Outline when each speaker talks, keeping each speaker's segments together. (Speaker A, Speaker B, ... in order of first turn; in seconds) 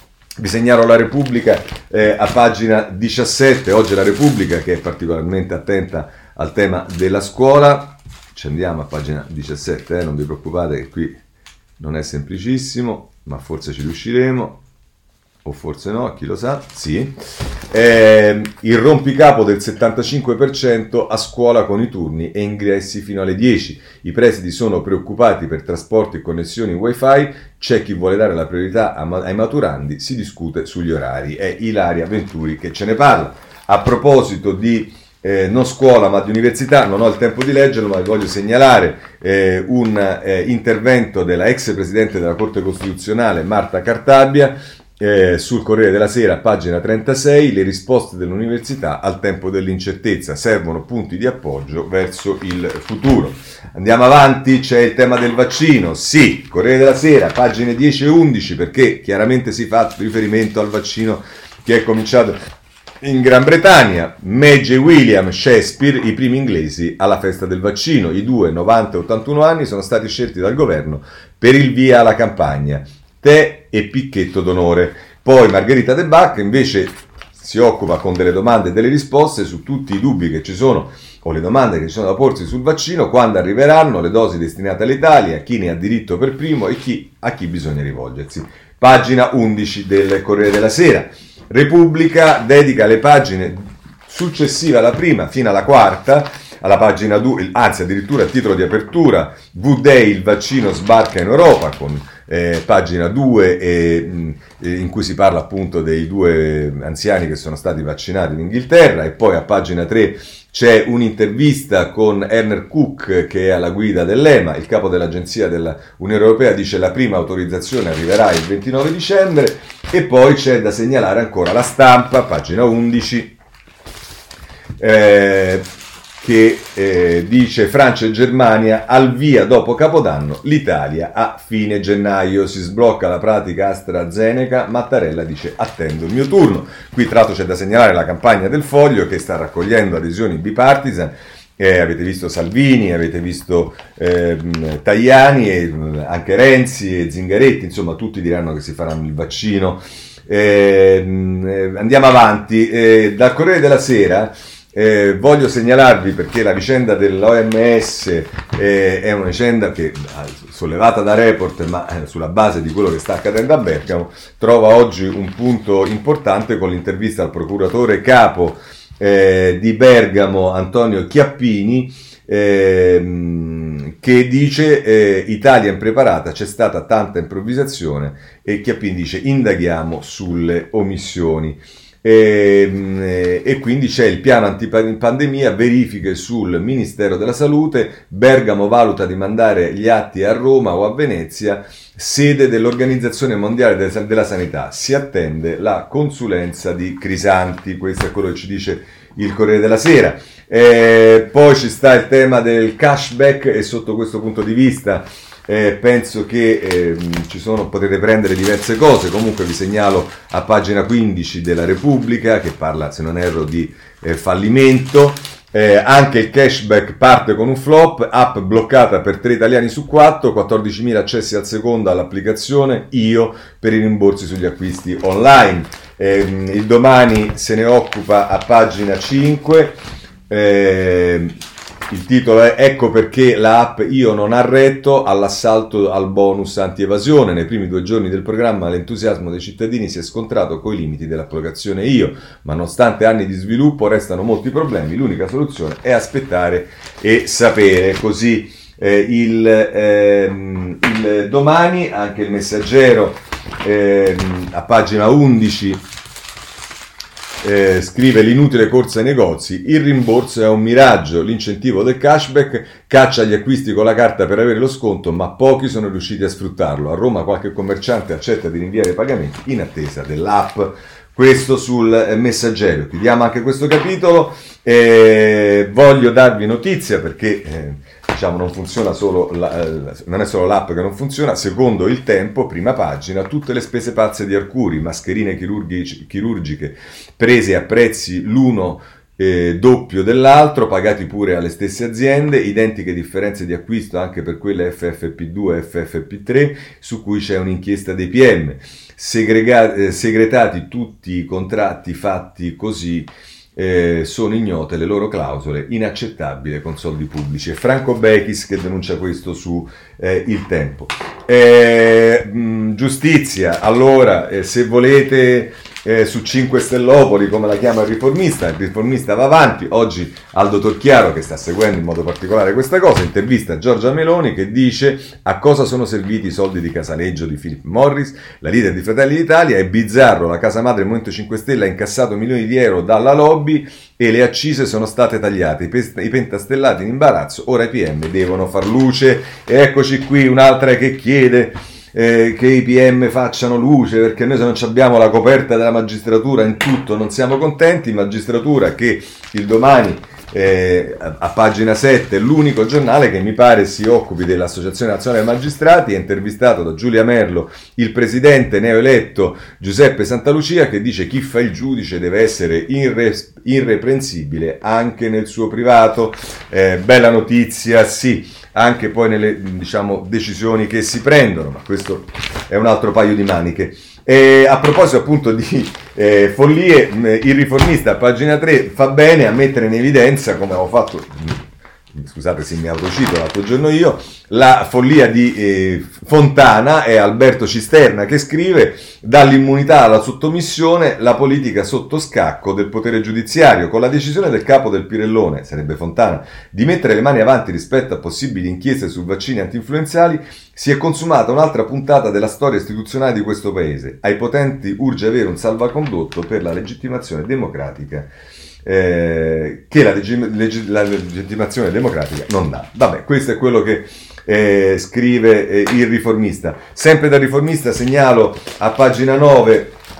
Speaker A: 0.4-11.2, 11.8-14.6, 15.4-17.1, 17.7-62.4, 63.0-123.3, 124.8-125.6, 126.2-229.8, 230.3-231.3, 231.9-255.8, 257.4-381.4, 381.9-408.1, 408.6-419.8